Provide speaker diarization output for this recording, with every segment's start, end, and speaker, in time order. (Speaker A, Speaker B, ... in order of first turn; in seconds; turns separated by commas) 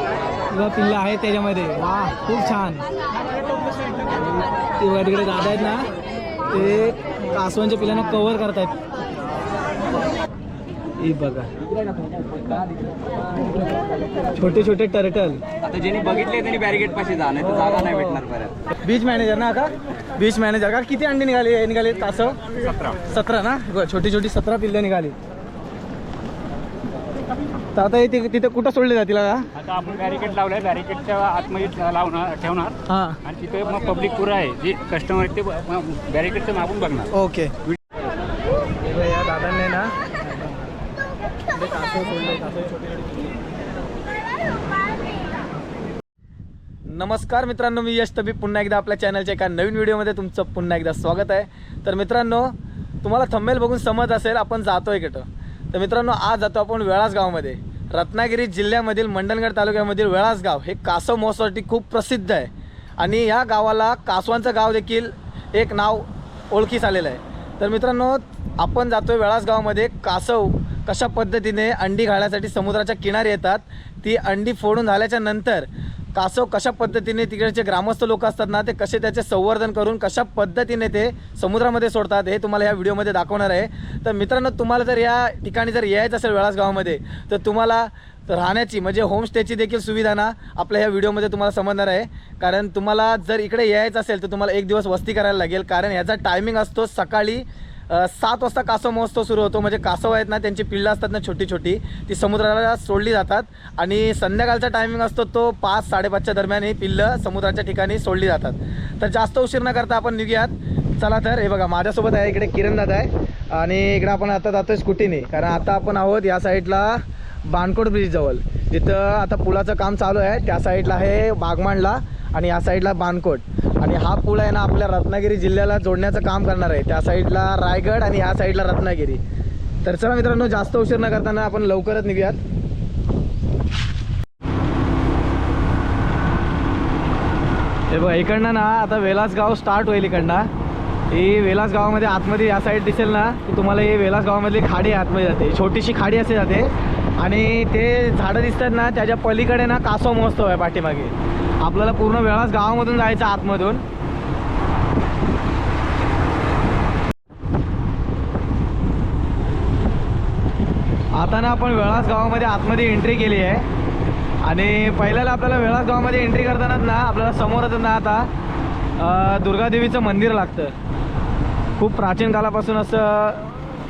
Speaker A: 0.5-2.9, Speaker A: 4.8-5.9, Speaker A: 6.5-8.8, Speaker A: 11.0-11.5, Speaker A: 14.3-15.4, Speaker B: 15.6-18.5, Speaker A: 18.8-22.4, Speaker C: 22.6-23.0, Speaker A: 23.1-25.1, Speaker A: 27.7-29.5, Speaker C: 29.6-37.1, Speaker A: 32.9-33.2, Speaker A: 37.1-37.5, Speaker A: 38.8-40.6, Speaker A: 41.5-43.3, Speaker A: 46.9-129.2, Speaker A: 129.8-132.4, Speaker A: 137.9-140.5, Speaker A: 141.1-153.8, Speaker A: 161.1-163.7, Speaker A: 164.4-168.3, Speaker A: 169.0-170.7, Speaker A: 171.8-173.5